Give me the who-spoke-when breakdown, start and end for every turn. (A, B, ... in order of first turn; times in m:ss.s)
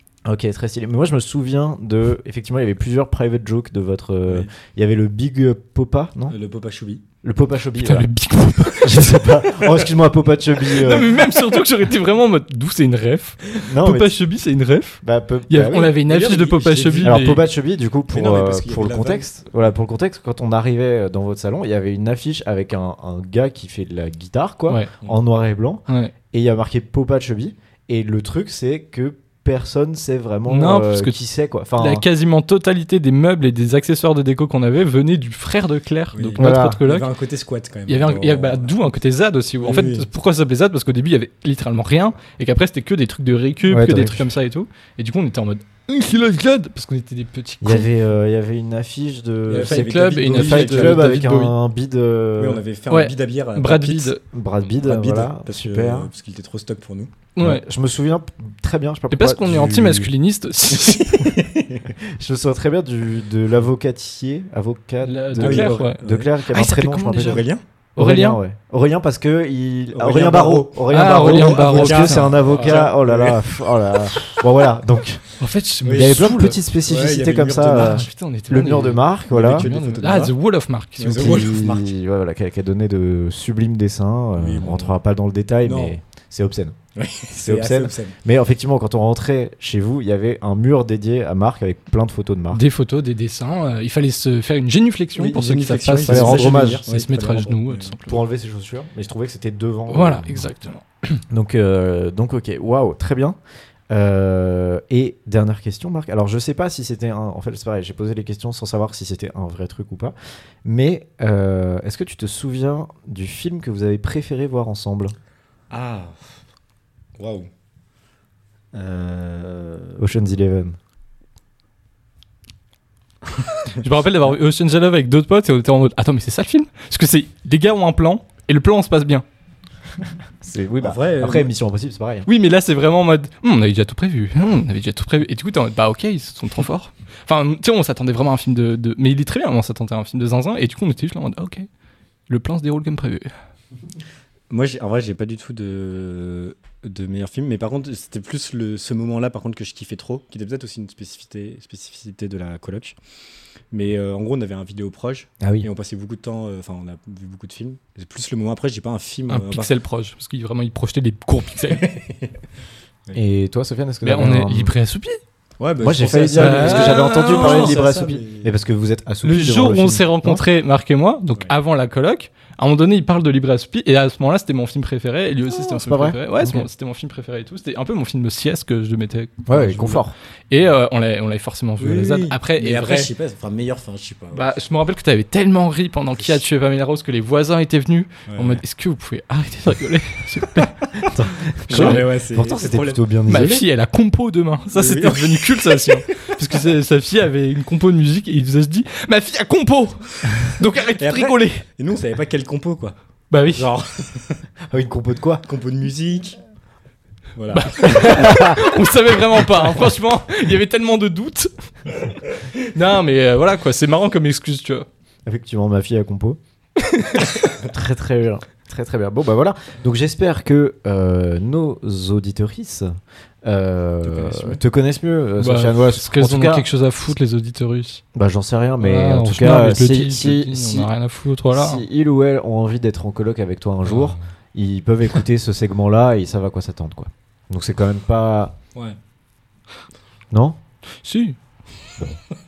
0:00.2-0:06.4 A
0:04.2-0:04.5 B
0:06.3-0:07.0 B
0:07.2-0:08.1 A
0:07.8-0:09.2 C
0:08.7-0:11.2 A
0:10.6-0:17.5 C
0:13.6-0:14.2 A
0:15.0-0:16.0 A
0:16.1-0:17.4 B
0:17.0-0:32.0 A
0:18.1-0:19.7 B
0:25.9-0:26.1 C
0:30.5-0:31.2 C
0:31.8-0:37.1 C
0:36.1-0:38.8 B
0:36.4-0:36.8 A
0:37.9-0:47.9 C
0:39.6-0:40.1 B
0:43.7-0:44.3 A
0:47.6-0:52.6 A
0:49.5-0:51.2 B
0:49.6-0:51.6 C
0:52.4-0:57.1 B
0:52.9-0:54.2 C
0:54.3-0:56.1 A
0:57.3-0:57.6 C
0:57.4-1:00.1 A
0:59.1-1:01.3 C
1:00.8-1:01.8 B
1:02.0-1:15.2 A
1:05.0-1:07.4 C
1:05.4-1:06.3 B
1:07.2-1:07.6 B
1:08.0-1:08.4 C
1:09.9-1:14.0 B
1:10.9-1:12.9 C
1:15.4-1:16.6 C
1:15.8-1:16.2 B
1:15.9-1:19.7 A
1:16.8-1:18.0 B
1:17.6-1:21.5 C
1:19.3-1:20.3 B
1:21.0-1:21.9 B
1:21.1-1:26.8 A
1:24.3-1:25.0 B
1:25.6-1:26.0 B
1:27.0-1:28.2 B
1:27.3-1:32.6 A
1:32.5-1:38.2 C
1:35.2-1:38.0 B
1:36.0-1:36.8 A
1:38.0-1:40.5 A
1:39.9-1:41.2 C
1:41.3-1:43.4 A
1:43.9-1:55.1 A
1:55.7-1:56.2 B
1:57.2-1:57.5 B
1:58.7-2:00.0 B
2:00.0-2:00.8 A
2:03.7-2:09.2 C
2:10.4-2:12.3 A
2:10.8-2:11.5 B
2:12.2-2:21.6 C
2:22.3-2:23.3 C
2:24.5-2:33.0 B
2:33.7-2:39.7 B
2:35.4-2:35.7 A
2:39.3-2:41.9 C
2:41.7-2:42.3 B
2:43.1-2:44.7 A
2:44.0-2:45.2 C
2:45.6-2:48.5 B
2:45.8-2:50.4 A
2:46.3-2:47.8 C
2:49.2-3:03.1 C
2:55.5-2:56.7 A
2:59.5-3:00.1 A
3:01.8-3:04.5 B
3:04.3-3:10.9 C
3:06.2-3:06.4 B
3:08.3-3:08.6 B
3:11.1-3:13.6 A
3:11.7-3:13.0 B
3:11.7-3:12.0 C
3:13.3-3:21.6 C
3:14.7-3:16.3 B
3:21.0-3:24.4 B
3:23.3-3:23.7 C
3:24.7-3:25.4 A
3:25.4-3:26.4 B
3:27.4-3:28.2 B
3:27.5-3:34.8 C
3:28.1-3:28.7 A
3:35.2-3:36.4 A
3:37.0-3:37.2 C
3:37.6-3:42.9 A
3:43.4-3:46.7 A
3:44.0-3:44.6 B
3:45.4-3:48.0 C
3:48.1-3:50.9 A
3:48.8-3:51.8 C
3:51.5-3:58.5 A
3:53.9-3:54.2 B
4:00.3-4:00.6 A
4:01.0-4:01.4 C